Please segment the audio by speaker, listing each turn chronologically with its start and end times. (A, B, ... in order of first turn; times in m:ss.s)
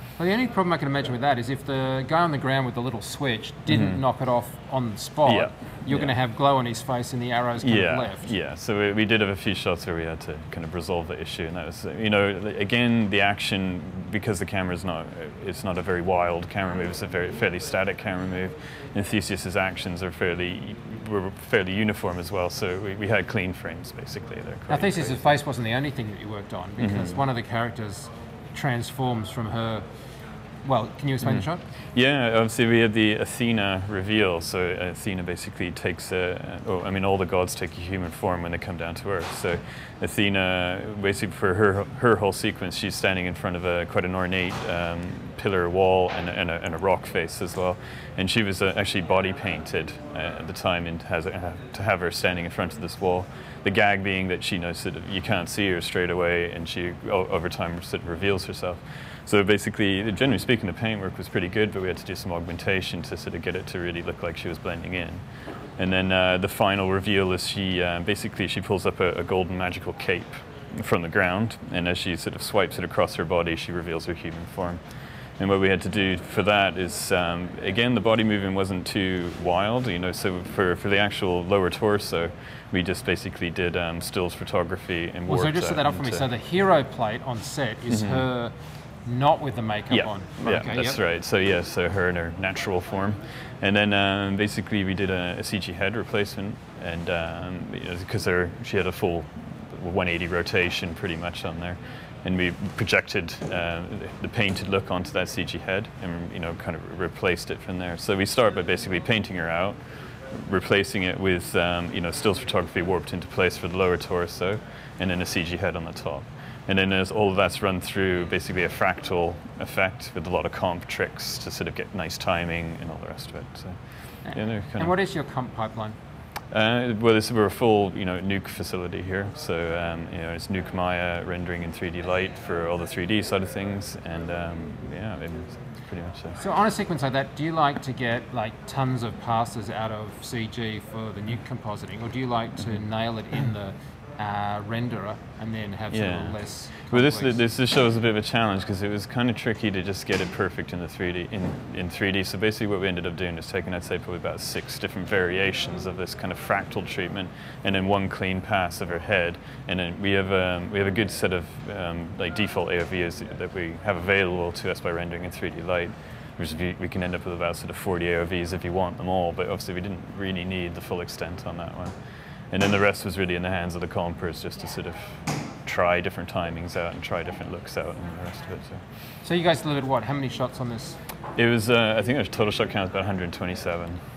0:00.2-0:08.4 A
0:03.7-0:04.0 B
0:05.2-0:06.2 B
0:07.6-0:25.3 B
0:24.7-0:29.9 A
0:26.8-0:27.2 B
0:30.6-0:31.6 A
0:31.2-1:05.2 B
1:05.8-1:14.8 B
1:15.4-1:26.3 B
1:25.3-1:28.5 A
1:27.9-1:28.3 B
1:29.0-1:31.0 A
1:29.9-1:49.8 B
1:50.3-2:03.8 B
2:04.2-2:06.0 A
2:04.3-2:05.0 B
2:06.5-2:16.4 B
2:16.4-2:27.4 A
2:25.9-2:26.4 B
2:26.9-2:51.9 B
2:52.5-2:58.8 B
2:59.2-3:01.0 A
3:01.4-3:04.0 B